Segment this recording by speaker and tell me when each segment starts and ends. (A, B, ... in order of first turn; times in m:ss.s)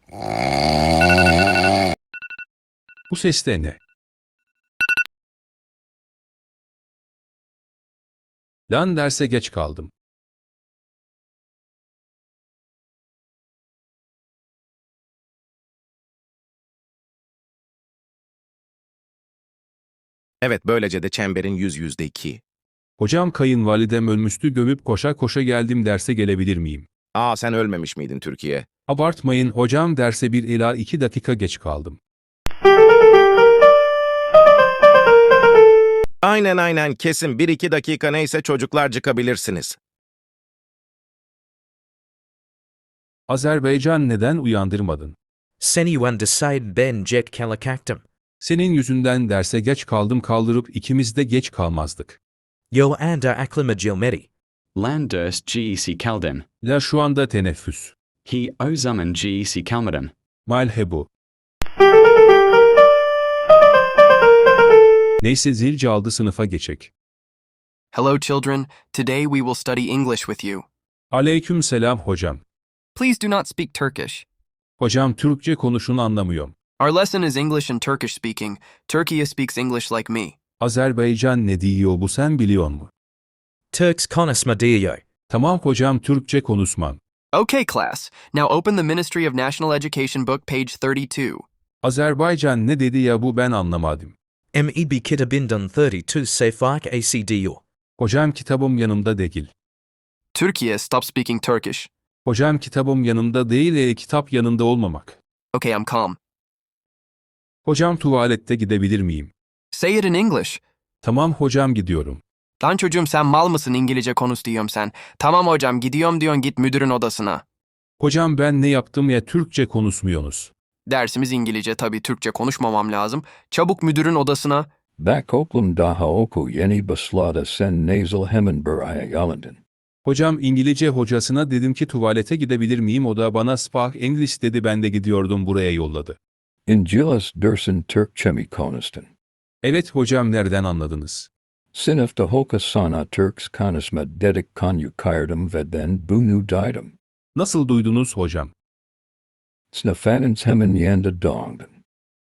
0:03.1-0:03.8 A
0:08.7-0:09.9 A
0:20.4-0:22.4 B
0:23.0-0:26.8 A
0:27.1-0:28.6 B
0:28.9-0:32.0 A
0:36.2-0:39.8 B
0:43.3-0:45.1 A
0:45.6-0:48.0 C
0:48.4-0:52.2 A
0:52.7-0:54.3 C
0:54.8-0:56.4 D
0:56.6-0:57.9 A
0:58.2-1:00.1 D
1:00.5-1:01.1 A
1:05.2-1:06.9 A
1:07.9-1:10.6 E
1:11.1-1:12.4 A
1:12.9-1:14.2 E
1:14.8-1:16.5 A
1:16.8-1:20.4 E
1:20.6-1:22.9 A
1:23.7-1:25.0 C
1:25.3-1:27.0 A
1:27.3-1:31.4 E
1:31.8-1:34.1 A
1:34.5-1:37.6 C
1:38.0-1:39.5 A
1:40.3-1:41.9 E
1:42.2-1:45.2 A
1:45.5-1:46.2 E
1:47.6-1:49.3 A
1:49.7-1:50.6 E
1:51.0-1:52.2 A
1:52.6-1:57.4 E
1:58.0-2:00.5 A
2:00.9-2:04.7 E
2:05.0-2:09.6 F
2:10.0-2:16.2 A
2:16.6-2:19.1 F
2:19.6-2:21.3 A
2:21.7-2:26.9 F
2:27.3-2:28.5 A
2:29.7-2:31.8 F